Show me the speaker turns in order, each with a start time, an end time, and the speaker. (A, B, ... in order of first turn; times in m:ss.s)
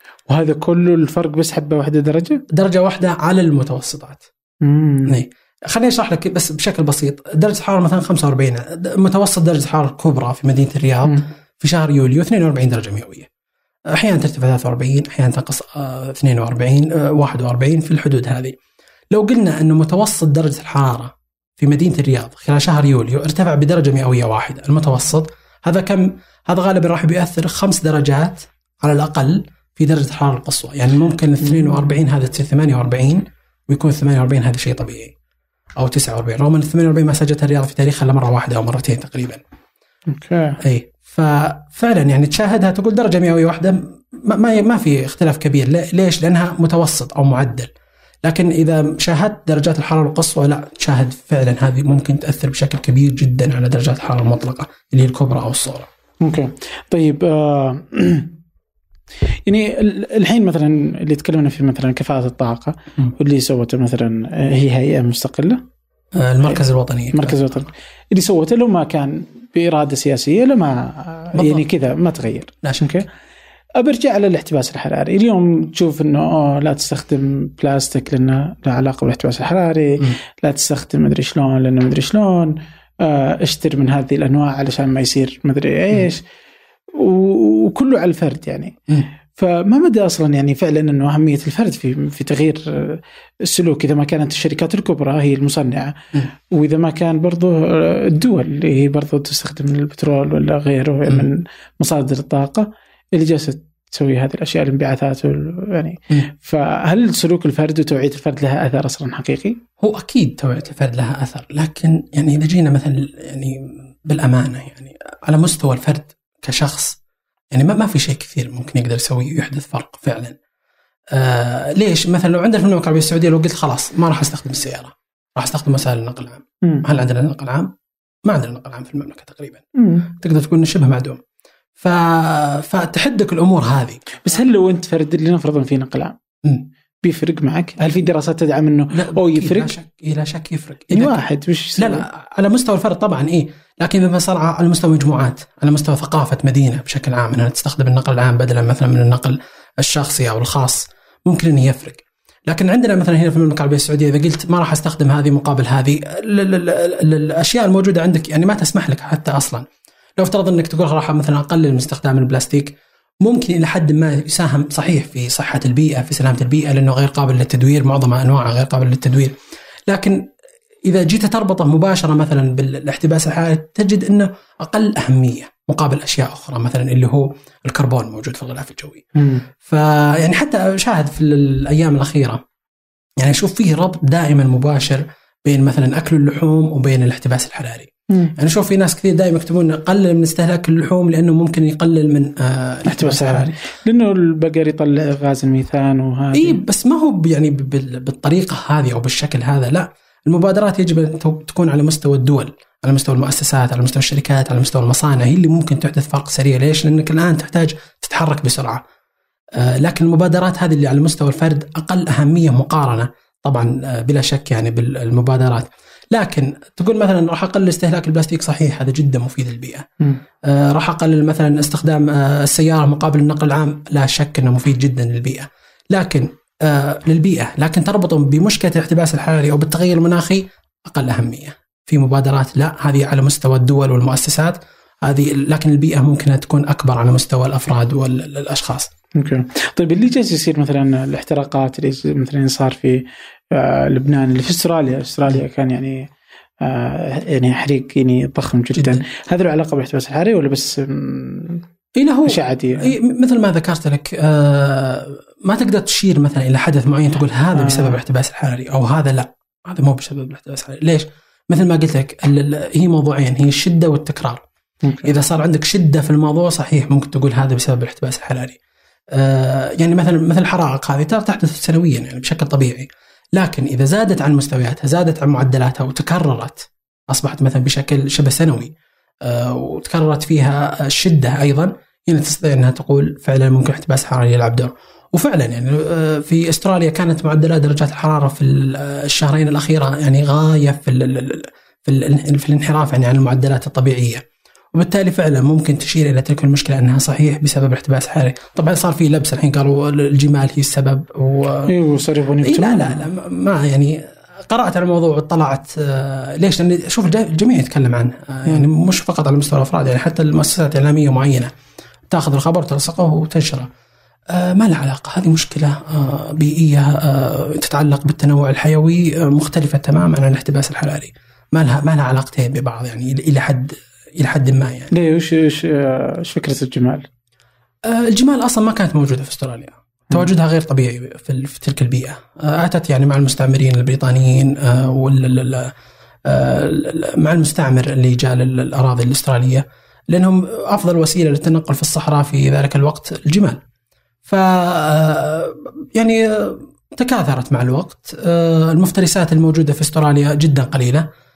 0:00.3-0:02.4 A
0:02.5-0:04.2 B
0:04.6-0:05.2 A
0:05.1-0:13.3 B
0:13.9-0:18.6 B
0:19.1-0:35.1 B
0:31.4-0:31.8 A
0:35.8-0:39.4 B
0:40.1-0:40.6 A
0:40.6-0:47.7 B
0:48.2-0:55.9 B
0:56.2-0:58.4 A
0:59.4-1:05.6 A
1:06.1-1:07.7 B
1:07.1-1:13.1 A
1:11.3-1:11.6 B
1:12.6-1:13.0 B
1:13.8-1:26.2 A
1:26.9-1:28.8 A
1:29.3-1:49.6 A
1:49.8-1:57.0 B
1:57.5-2:00.4 B
2:01.1-2:07.7 B
2:08.2-2:11.2 B
2:09.8-2:10.1 A
2:11.8-2:14.2 B
2:14.2-2:16.2 A
2:17.0-2:19.7 A
2:18.9-2:21.2 B
2:20.9-2:22.0 A
2:21.8-2:39.6 B
2:40.2-2:49.3 B
2:49.9-2:50.2 B
2:50.8-2:59.0 B
2:59.2-2:59.4 A
2:59.6-3:02.4 B
3:03.2-3:13.5 B
3:08.1-3:08.3 A
3:12.8-3:16.6 A
3:16.3-3:28.8 B
3:29.6-3:39.9 B
3:40.4-3:58.9 B
3:59.1-4:06.1 A
4:06.6-4:11.6 A
4:08.7-4:09.0 B
4:12.0-4:24.4 B
4:12.2-4:12.9 A
4:17.6-4:18.0 A
4:24.8-4:25.2 A
4:25.0-4:28.6 B
4:29.1-4:54.2 B
4:54.7-5:01.7 B
5:01.7-5:03.0 A
5:02.4-5:11.5 B
5:12.1-5:13.7 B
5:14.3-5:24.9 B
5:24.9-5:27.1 A
5:27.8-5:35.7 B
5:36.2-5:43.6 B
5:44.3-5:51.1 B